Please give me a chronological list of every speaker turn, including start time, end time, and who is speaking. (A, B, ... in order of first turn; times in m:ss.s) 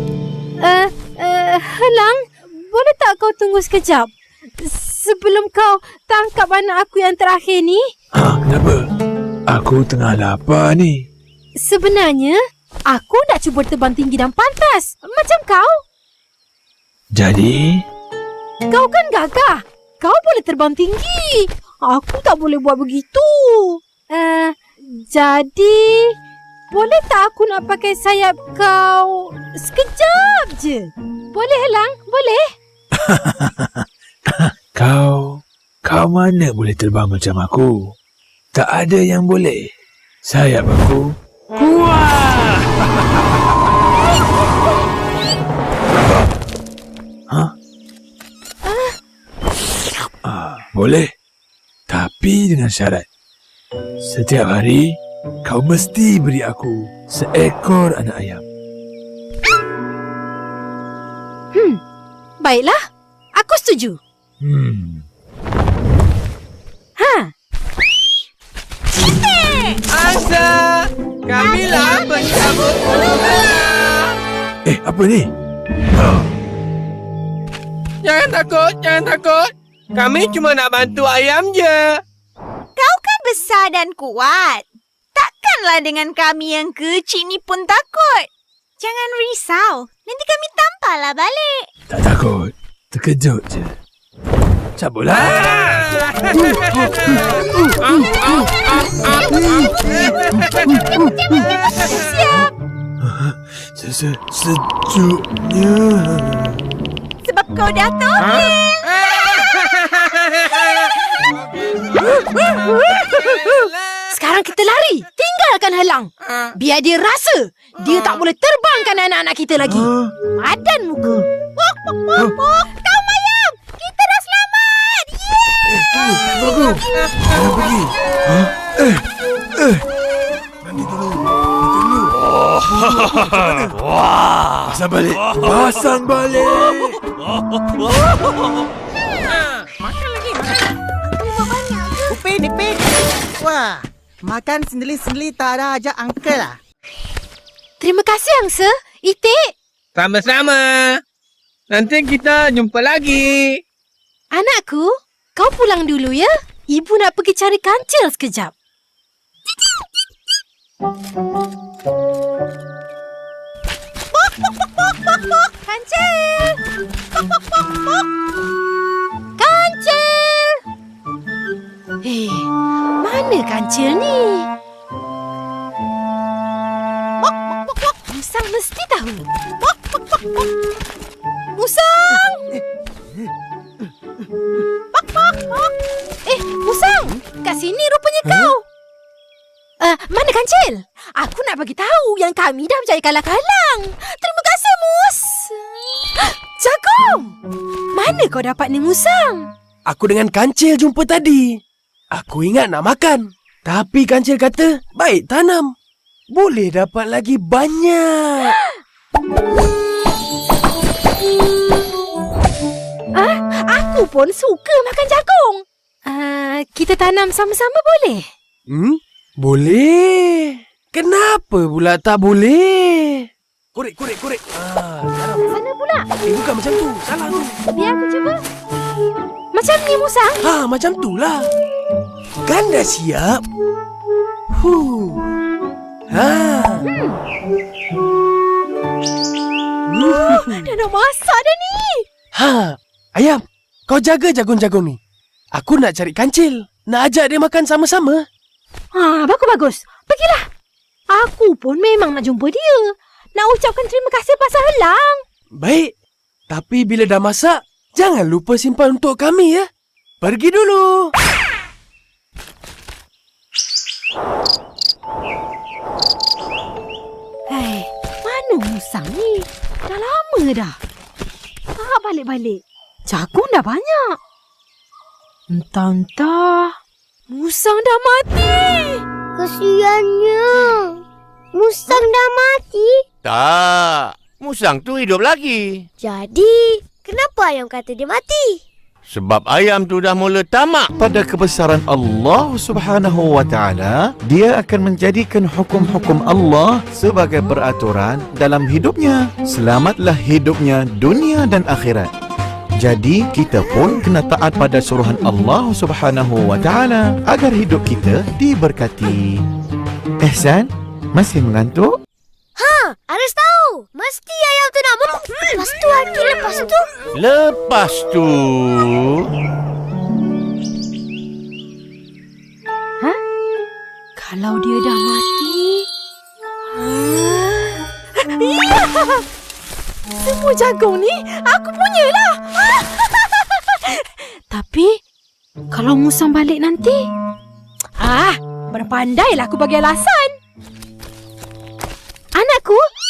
0:00.6-0:04.1 A
0:04.6-0:07.9 A
0:08.1-0:08.8 B
0:09.5-0:11.0 B
0:11.6-0:12.4 A
0:12.9-0:15.8 A
0:17.1-0:17.8 B
0:18.7-0:26.1 A
0:26.7-0:32.4 A
0:33.1-0:37.7 B
0:38.5-0:39.6 B
0:40.2-0:41.0 B
0:41.6-0:42.6 B
0:48.6-0:49.0 A
0:50.2-0:51.1 B
0:51.9-0:53.0 B
0:54.0-0:54.8 B
0:55.4-0:58.4 B
1:01.5-1:01.8 A
1:02.4-1:02.8 A
1:03.4-1:04.0 A
1:04.4-1:05.0 B
1:07.0-1:07.3 A
1:09.3-1:09.8 C
1:09.9-1:10.7 D
1:11.3-1:14.0 D
1:11.4-1:12.2 C
1:14.6-1:15.3 B
1:18.0-1:22.0 D
1:22.8-1:28.3 C
1:28.8-1:31.7 C
1:31.9-1:33.7 B
1:34.8-1:35.8 B
1:41.2-1:42.5 A
1:43.0-1:46.5 B
1:47.4-1:47.9 A
1:52.0-2:01.2 A
1:59.7-2:00.1 B
2:02.9-2:04.8 A
2:05.7-2:09.0 B
2:09.6-2:09.8 B
2:14.7-2:17.0 B
2:19.9-2:20.4 E
2:21.4-2:22.0 F
2:22.1-2:22.8 E
2:23.4-2:23.7 E
2:24.3-2:26.5 E
2:27.8-2:29.4 A
2:30.0-2:30.8 D
2:31.7-2:33.5 D
2:34.3-2:38.5 A
2:45.3-2:46.6 A
2:49.4-2:50.6 A
2:52.0-2:54.5 A
2:57.7-2:59.3 A
3:01.5-3:02.5 A
3:05.0-3:05.7 A
3:06.2-3:08.6 A
3:09.8-3:17.3 A
3:17.9-3:19.5 A
3:19.9-3:21.6 G
3:22.1-3:25.7 G
3:26.3-3:28.5 G
3:33.2-3:38.2 A
3:38.7-3:45.4 G
3:45.5-3:46.0 A
3:46.3-3:47.6 G
3:47.7-3:48.4 A
3:49.5-3:50.4 A
3:50.4-3:51.5 G
3:52.5-3:53.4 G
3:54.6-3:55.3 G
3:56.1-3:56.9 G
3:56.8-3:57.2 A
3:59.9-4:00.6 G
4:00.0-4:02.0 A
4:02.4-4:05.0 G
4:05.5-4:08.2 G
4:08.9-4:10.4 A
4:11.1-4:15.2 A
4:15.6-4:15.9 G
4:16.5-4:19.7 G
4:20.2-4:21.1 G
4:27.5-4:30.8 A
4:31.8-4:34.2 A
4:35.5-4:36.8 A
4:37.3-4:39.0 A
4:39.4-4:41.0 F
4:41.5-4:43.0 F
4:43.2-4:45.9 H
4:46.0-4:48.6 F
4:49.1-4:50.9 H
4:51.0-5:02.1 I
5:02.8-5:09.4 I
5:10.2-5:11.9 I
5:12.6-5:16.9 F
5:17.1-5:19.2 H
5:24.2-5:25.9 A
5:26.8-5:29.2 A
5:30.2-5:35.0 A
5:35.7-5:37.0 A
5:38.0-5:40.4 A
5:42.4-5:42.8 A